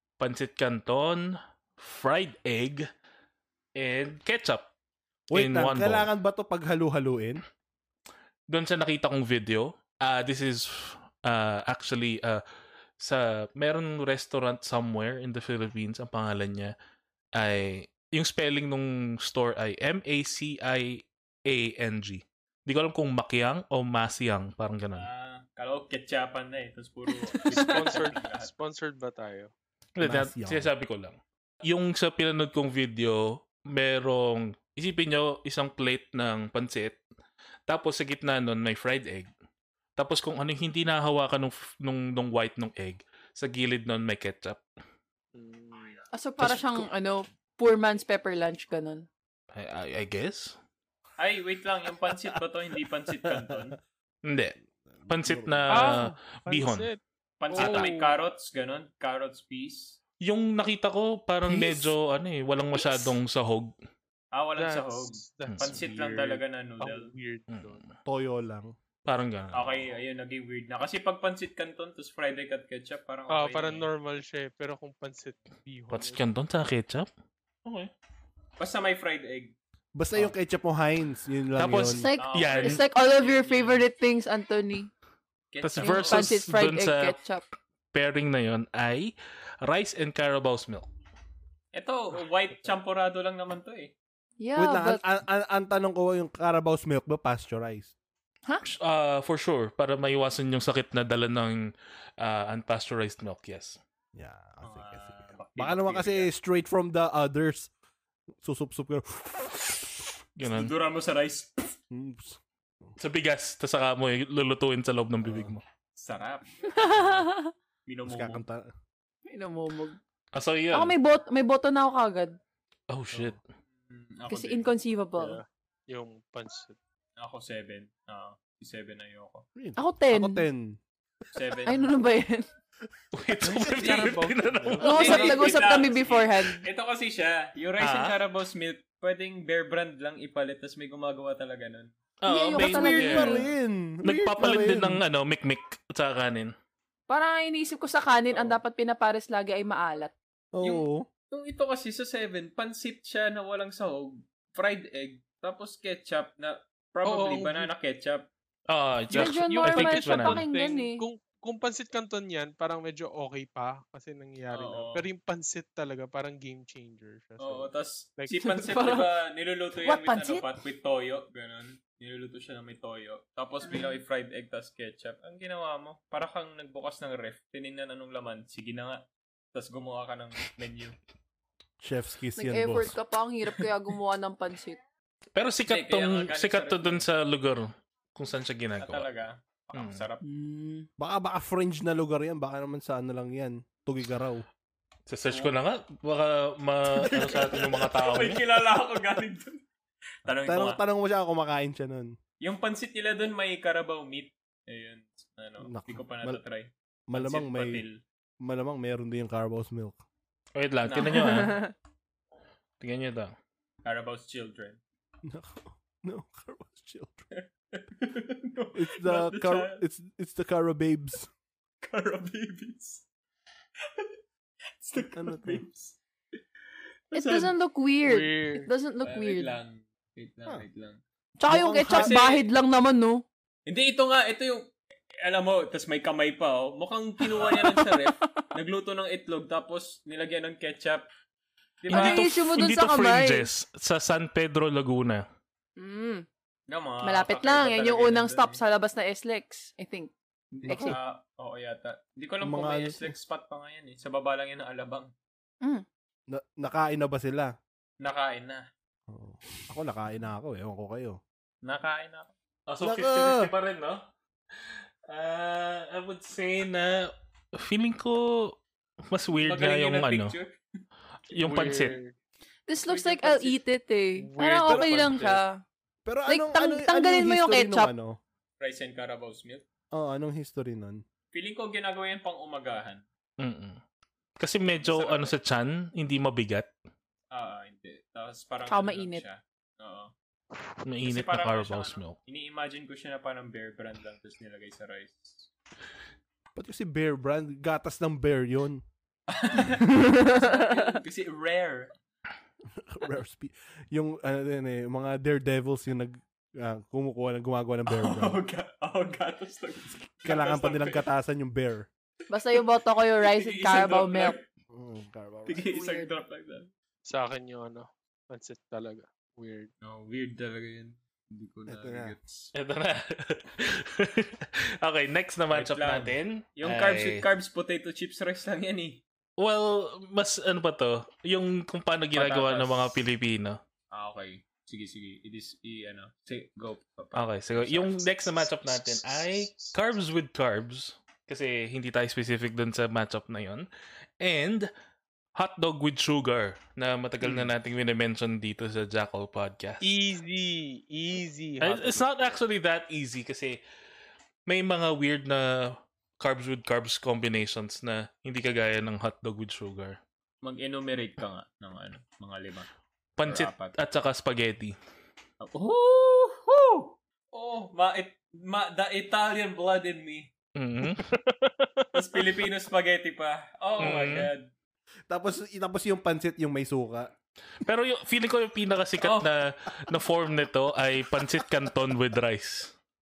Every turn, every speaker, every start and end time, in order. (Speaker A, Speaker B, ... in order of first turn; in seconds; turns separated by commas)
Speaker A: 0.2-2.9, Speaker A: 3.8-4.7, Speaker A: 5.3-6.1, Speaker B: 5.3-7.4, Speaker A: 8.5-12.4, Speaker A: 13.0-16.7, Speaker A: 17.4-25.1, Speaker C: 24.9-28.5, Speaker D: 27.2-27.6, Speaker E: 27.5-29.5, Speaker A: 29.9-37.0, Speaker B: 30.0-30.7, Speaker A: 37.7-39.3, Speaker A: 40.0-44.6, Speaker E: 45.3-46.0, Speaker D: 46.1-49.0, Speaker A: 46.4-46.8, Speaker A: 49.5-50.5, Speaker C: 51.2-53.8, Speaker B: 53.2-53.5, Speaker A: 54.2-54.5, Speaker B: 55.0-55.9, Speaker A: 55.1-56.9, Speaker E: 55.7-57.0, Speaker C: 57.4-60.0, Speaker E: 57.5-58.1, Speaker A: 57.5-57.9, Speaker A: 60.2-63.7, Speaker B: 61.5-61.8, Speaker D: 62.8-63.0, Speaker C: 64.3-67.1, Speaker E: 64.6-67.8, Speaker A: 67.5-67.9, Speaker B: 68.0-68.7, Speaker A: 69.0-69.9, Speaker C: 69.5-73.9, Speaker E: 73.3-76.2, Speaker A: 75.9-77.1, Speaker A: 77.6-77.9, Speaker C: 78.6-79.5, Speaker B: 79.9-82.0, Speaker A: 81.6-82.8, Speaker D: 81.9-84.9, Speaker C: 82.2-83.8, Speaker C: 85.5-86.3, Speaker A: 85.6-87.2, Speaker D: 85.8-87.4, Speaker A: 87.9-90.9, Speaker C: 91.7-93.9, Speaker D: 94.4-95.0, Speaker B: 94.5-97.9, Speaker A: 98.6-101.7, Speaker A: 102.2-103.8, Speaker B: 104.1-107.7, Speaker C: 104.6-106.3, Speaker B: 108.4-110.1, Speaker A: 110.4-110.7, Speaker C: 110.4-111.8, Speaker B: 111.9-112.9, Speaker A: 113.0-115.6, Speaker B: 115.2-115.5, Speaker C: 116.0-116.6, Speaker D: 116.7-117.5, Speaker B: 116.8-117.2, Speaker C: 117.9-118.4, Speaker B: 118.0-118.7, Speaker D: 119.3-120.0, Speaker A: 120.3-120.9, Speaker D: 120.7-122.4, Speaker A: 122.9-123.4, Speaker C: 123.9-124.7, Speaker D: 124.3-125.4, Speaker E: 125.2-126.8, Speaker C: 127.2-129.4, Speaker B: 129.6-130.8, Speaker D: 129.8-130.4, Speaker C: 131.3-131.9, Speaker D: 131.7-132.5, Speaker A: 133.1-135.4, Speaker E: 133.4-135.4, Speaker D: 134.8-136.7, Speaker C: 134.8-141.9, Speaker A: 137.8-138.2, Speaker A: 142.2-143.5, Speaker D: 142.2-143.4, Speaker B: 142.5-145.0, Speaker A: 144.0-146.5, Speaker D: 147.1-150.1, Speaker B: 150.5-151.1, Speaker C: 150.6-158.3, Speaker E: 157.0-157.7, Speaker A: 158.7-160.4, Speaker D: 159.1-161.0, Speaker E: 159.1-168.7, Speaker C: 164.5-165.1, Speaker C: 167.4-179.0, Speaker D: 168.4-169.1, Speaker D: 169.8-170.4, Speaker C: 179.5-180.9, Speaker B: 181.8-182.9, Speaker D: 182.4-184.8, Speaker A: 185.3-189.1, Speaker C: 185.7-187.1, Speaker C: 188.8-190.2, Speaker A: 189.7-190.1, Speaker D: 190.2-190.9, Speaker B: 191.0-194.4, Speaker A: 195.1-198.4, Speaker C: 195.3-195.6, Speaker C: 197.0-199.6, Speaker C: 200.2-200.8, Speaker B: 200.3-202.2, Speaker C: 202.4-208.0, Speaker B: 205.6-206.4, Speaker B: 207.1-207.8, Speaker B: 208.4-210.0, Speaker A: 210.5-211.7, Speaker C: 210.8-211.3, Speaker D: 211.1-211.7, Speaker A: 212.8-213.3, Speaker C: 213.8-214.8, Speaker B: 215.2-217.2, Speaker C: 217.3-219.8, Speaker B: 218.7-221.3, Speaker C: 221.8-223.0, Speaker C: 223.8-224.1, Speaker C: 224.8-226.0, Speaker B: 225.1-225.6, Speaker C: 227.1-227.5, Speaker D: 227.1-229.5, Speaker E: 228.0-228.7, Speaker C: 229.0-231.0, Speaker D: 231.4-233.2, Speaker B: 231.5-232.1, Speaker C: 231.9-232.5, Speaker C: 233.7-234.7, Speaker C: 235.2-241.1, Speaker D: 237.2-238.4, Speaker C: 241.8-242.2, Speaker A: 241.9-245.2, Speaker D: 241.9-243.5, Speaker D: 245.8-246.2, Speaker C: 246.7-248.6, Speaker D: 247.0-250.1, Speaker C: 250.5-255.1, Speaker B: 250.6-251.0, Speaker D: 250.7-251.0, Speaker B: 252.4-253.1, Speaker B: 256.3-257.5, Speaker C: 258.0-258.6, Speaker B: 259.1-261.2, Speaker C: 261.6-262.3, Speaker A: 262.7-264.0, Speaker B: 262.8-263.5, Speaker A: 264.6-270.4, Speaker C: 269.3-270.6, Speaker A: 271.3-272.0, Speaker E: 271.4-272.1, Speaker D: 272.7-275.6, Speaker C: 272.9-273.6, Speaker E: 274.2-275.4, Speaker B: 276.0-278.2, Speaker D: 276.3-277.9, Speaker C: 278.6-279.6, Speaker B: 279.9-281.0, Speaker C: 281.3-283.0, Speaker A: 283.4-283.8, Speaker A: 284.4-286.7, Speaker C: 284.8-285.3, Speaker C: 287.3-290.1, Speaker D: 288.7-289.2, Speaker A: 290.8-292.2, Speaker C: 291.0-295.5, Speaker B: 296.5-298.8, Speaker C: 299.3-301.9, Speaker D: 299.8-301.0, Speaker B: 302.8-308.4, Speaker C: 307.9-311.1, Speaker B: 310.2-311.9, Speaker D: 312.3-314.4, Speaker C: 313.2-314.4, Speaker B: 314.7-315.6, Speaker C: 315.4-316.7, Speaker D: 315.6-316.1, Speaker E: 317.1-319.7, Speaker C: 319.8-322.5, Speaker B: 321.7-322.1, Speaker A: 322.5-327.3, Speaker C: 325.5-329.0, Speaker A: 329.4-333.6, Speaker C: 332.1-333.0, Speaker C: 333.9-338.5, Speaker A: 337.1-343.7, Speaker E: 338.9-339.8, Speaker A: 344.2-344.7, Speaker A: 345.3-349.9, Speaker E: 349.8-352.4, Speaker A: 351.6-353.6, Speaker A: 354.5-360.0, Speaker C: 360.4-362.7, Speaker A: 363.2-364.8, Speaker C: 363.2-363.8, Speaker C: 365.4-370.3, Speaker A: 370.6-371.1, Speaker E: 370.9-372.3, Speaker C: 371.9-374.5, Speaker A: 373.8-374.3, Speaker B: 375.1-377.1, Speaker A: 377.6-382.7, Speaker C: 379.0-379.3